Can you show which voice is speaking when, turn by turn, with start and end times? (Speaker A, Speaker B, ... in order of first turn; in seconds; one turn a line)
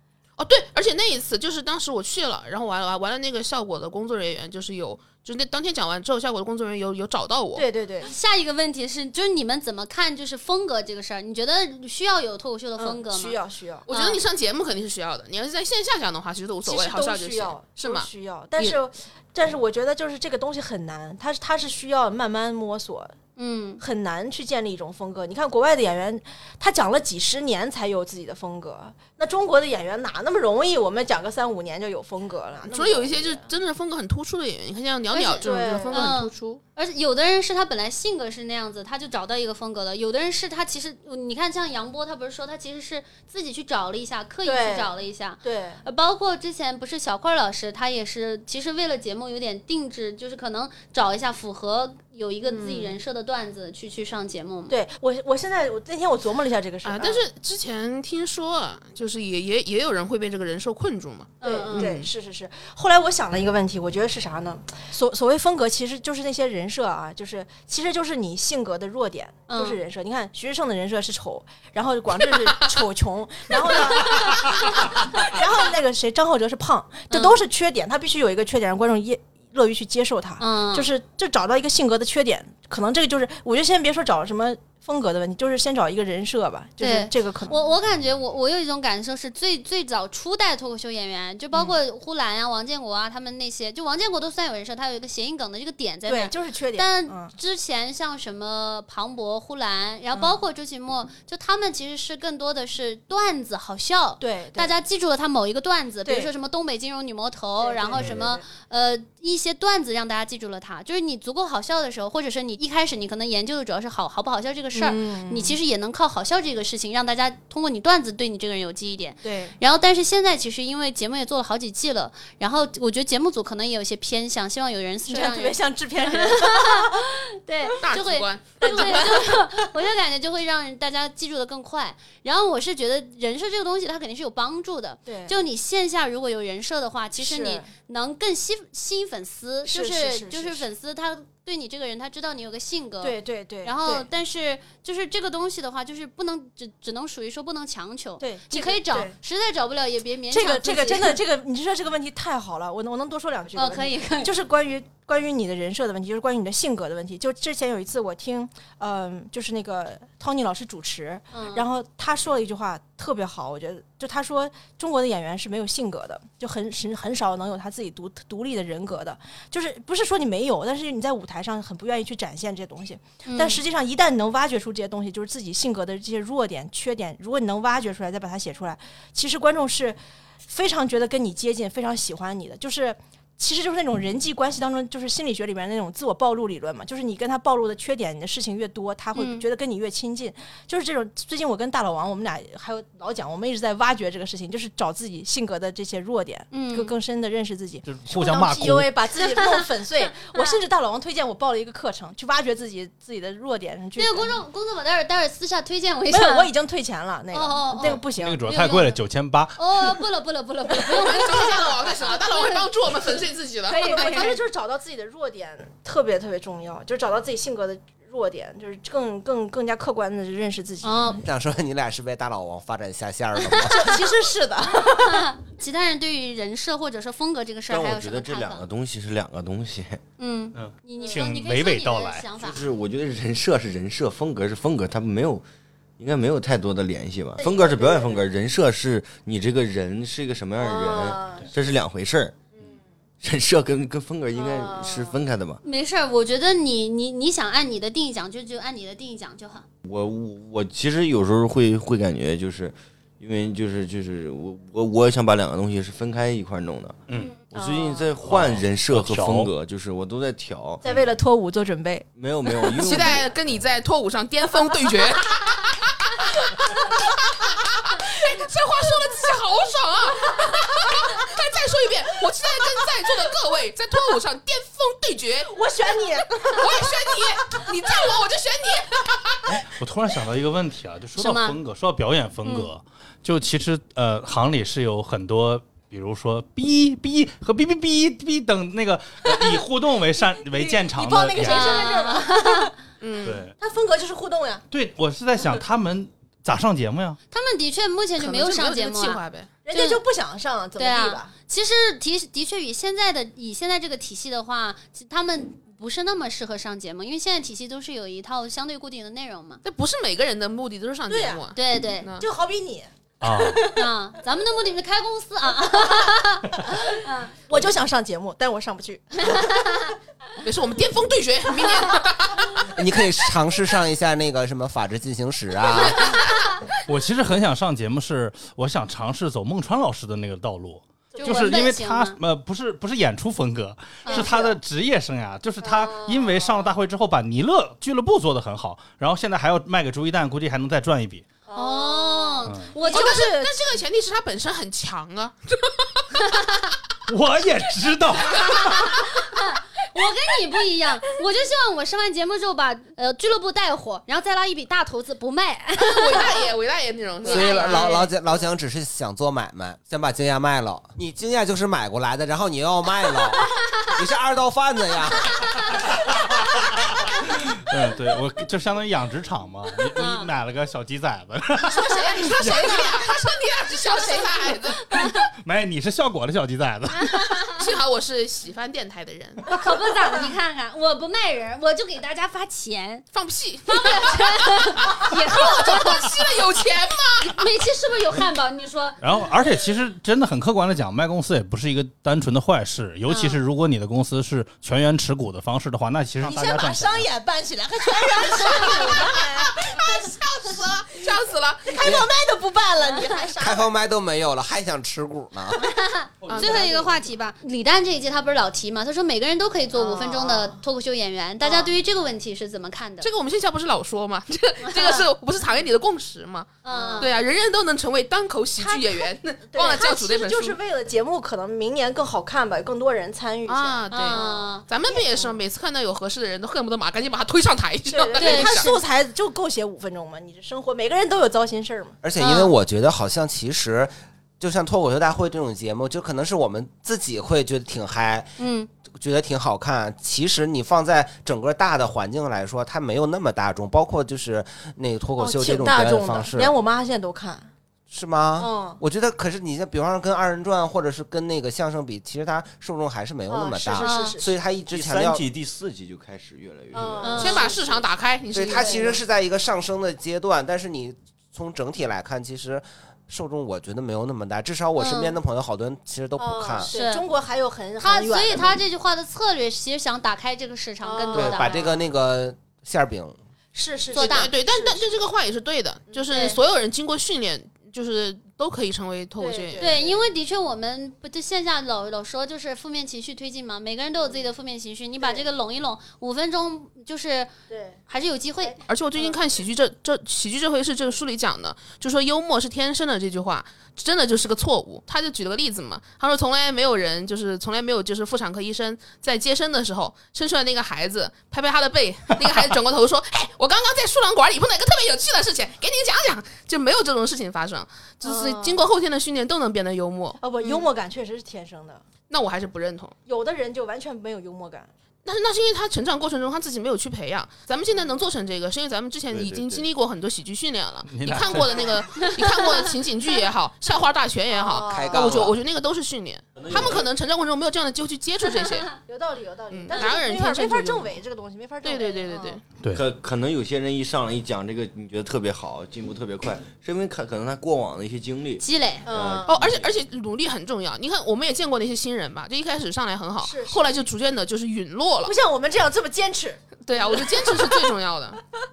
Speaker A: 0.4-7.7
Speaker B: 7.5-8.1
Speaker C: 8.0-13.4
Speaker B: 12.8-13.9
Speaker A: 13.9-18.8
Speaker C: 13.9-14.2
Speaker B: 16.6-23.1
Speaker C: 23.4-23.8
Speaker B: 23.8-33.5
Speaker A: 32.7-36.6
Speaker C: 35.1-54.8
Speaker B: 35.4-36.1
Speaker B: 44.4-44.9
Speaker B: 45.4-45.8
Speaker B: 52.5-53.0
Speaker B: 54.7-57.2
Speaker A: 56.8-62.1
Speaker C: 61.4-61.9
Speaker B: 61.4-87.6
Speaker C: 69.5-69.8
Speaker C: 77.1-77.4
Speaker C: 80.4-80.9
Speaker C: 86.8-151.2
Speaker B: 96.0-97.3
Speaker B: 104.2-104.7
Speaker B: 106.0-106.3
Speaker B: 107.6-108.4
Speaker B: 114.7-115.6
Speaker B: 119.2-119.5
Speaker B: 125.1-127.0
Speaker A: 127.8-129.0
Speaker B: 128.6-129.7
Speaker B: 135.1-135.3
Speaker B: 137.2-137.7
Speaker B: 139.7-140.7
Speaker B: 143.0-144.1
Speaker B: 148.2-149.1
Speaker B: 150.3-204.4
Speaker C: 153.5-154.3
Speaker C: 161.3-161.7
Speaker C: 173.2-173.6
Speaker C: 189.1-189.4
Speaker C: 196.5-196.9
Speaker D: 197.8-198.9
Speaker C: 200.2-200.6
Speaker C: 204.0-206.5
Speaker B: 206.1-208.4
Speaker C: 207.3-209.0
Speaker D: 207.8-210.0
Speaker C: 209.6-212.7
Speaker B: 210.8-211.7
Speaker A: 210.9-213.8
Speaker C: 213.7-214.4
Speaker B: 213.7-221.2
Speaker C: 220.8-221.2
Speaker E: 221.2-224.0
Speaker B: 223.7-225.3
Speaker C: 224.8-228.6
Speaker F: 227.7-230.0
Speaker C: 230.2-232.6
Speaker D: 230.5-232.3
Speaker F: 232.4-235.4
Speaker F: 236.0-242.4
Speaker B: 237.4-238.2
Speaker B: 240.6-241.4
Speaker F: 243.2-245.6
Speaker B: 244.3-245.2
Speaker C: 245.6-249.6
Speaker F: 249.8-260.8
Speaker D: 257.1-257.4
Speaker B: 257.5-258.1
Speaker D: 258.2-259.5
Speaker B: 260.8-263.2
Speaker F: 262.1-263.3
Speaker A: 262.7-275.6
Speaker B: 266.6-267.2
Speaker B: 270.4-271.2
Speaker B: 275.5-277.6
Speaker A: 276.5-279.4
Speaker D: 279.4-292.0
Speaker C: 281.1-281.6
Speaker C: 282.4-282.7
Speaker B: 290.5-294.6
Speaker C: 291.4-292.7
Speaker A: 293.0-293.4
Speaker D: 293.2-293.5
Speaker D: 294.7-297.2
Speaker C: 297.3-299.2
Speaker A: 298.2-299.5
Speaker B: 299.6-301.3
Speaker C: 299.7-300.0
Speaker C: 300.8-309.6
Speaker A: 309.6-312.2
Speaker B: 311.1-311.4
Speaker C: 311.5-312.1
Speaker B: 312.2-313.8
Speaker D: 313.2-313.7
Speaker C: 313.6-316.8
Speaker B: 316.7-319.7
Speaker C: 319.2-319.9
Speaker A: 320.4-322.8
Speaker E: 322.6-326.3
Speaker D: 326.9-341.2
Speaker B: 331.1-331.6
Speaker C: 331.2-332.2
Speaker C: 334.0-334.3
Speaker B: 334.1-334.6
Speaker B: 335.6-336.6
Speaker B: 341.5-343.6
Speaker C: 341.5-343.2
Speaker D: 342.5-342.7
Speaker A: 342.8-346.0
Speaker C: 346.2-346.6
Speaker D: 347.1-348.6
Speaker C: 348.3-356.4
Speaker A: 355.8-358.0
Speaker E: 357.2-365.9
Speaker C: 357.2-358.0
Speaker D: 367.5-372.8
Speaker C: 369.9-370.3
Speaker A: 371.7-374.8
Speaker B: 373.7-374.4
Speaker C: 374.9-375.3
Speaker D: 375.2-377.5
Speaker C: 376.9-377.7
Speaker A: 377.6-379.4
Speaker C: 379.5-383.1
Speaker A: 383.1-387.5
Speaker C: 383.7-386.2
Speaker C: 387.4-389.0
Speaker D: 389.0-397.1
Speaker C: 393.1-393.4
Speaker B: 396.2-401.1
Speaker A: 398.1-401.9
Speaker C: 398.4-399.0
Speaker B: 401.6-403.7
Speaker E: 401.8-402.1
Speaker E: 403.3-405.7
Speaker C: 405.6-413.1
Speaker D: 406.2-406.6
Speaker A: 406.2-406.9
Speaker B: 409.7-410.6
Speaker A: 413.0-420.6
Speaker C: 414.6-415.1
Speaker C: 416.6-417.1
Speaker B: 416.7-417.1
Speaker B: 418.6-425.4
Speaker A: 423.4-428.7
Speaker C: 423.9-424.6
Speaker B: 427.9-432.0
Speaker C: 428.1-428.7
Speaker E: 432.0-438.3
Speaker C: 432.2-432.5
Speaker C: 438.4-438.7
Speaker E: 438.9-446.5
Speaker B: 445.2-447.5
Speaker E: 447.9-455.2
Speaker B: 448.4-448.8
Speaker B: 453.3-454.3
Speaker C: 453.8-454.2
Speaker F: 454.7-457.2
Speaker B: 456.7-457.9
Speaker C: 457.0-457.5
Speaker A: 457.1-459.0
Speaker E: 458.3-466.7
Speaker B: 458.5-458.9
Speaker C: 464.8-465.1
Speaker B: 466.2-468.6
Speaker C: 466.7-467.0
Speaker C: 467.8-471.6
Speaker B: 470.8-471.8
Speaker E: 471.1-473.2
Speaker B: 473.5-474.9
Speaker C: 473.9-474.3
Speaker A: 474.0-479.8
Speaker B: 475.9-476.4
Speaker B: 479.2-480.0
Speaker C: 479.6-487.3
Speaker B: 485.0-485.2
Speaker B: 487.5-487.8
Speaker C: 487.9-488.6
Speaker B: 488.4-489.2
Speaker A: 488.7-510.6
Speaker B: 508.0-508.6
Speaker B: 510.2-511.8
Speaker A: 512.1-512.9
Speaker B: 513.0-514.7
Speaker A: 515.0-528.7
Speaker F: 519.1-519.6
Speaker D: 520.9-521.8
Speaker B: 524.3-525.3
Speaker E: 524.7-525.4
Speaker F: 526.4-526.9
Speaker B: 528.8-532.4
Speaker A: 529.5-531.0
Speaker A: 531.6-532.4
Speaker F: 532.7-539.7
Speaker C: 538.4-538.9
Speaker B: 538.9-539.3
Speaker A: 539.3-545.1
Speaker B: 543.2-543.8
Speaker B: 545.0-547.7
Speaker A: 546.7-548.2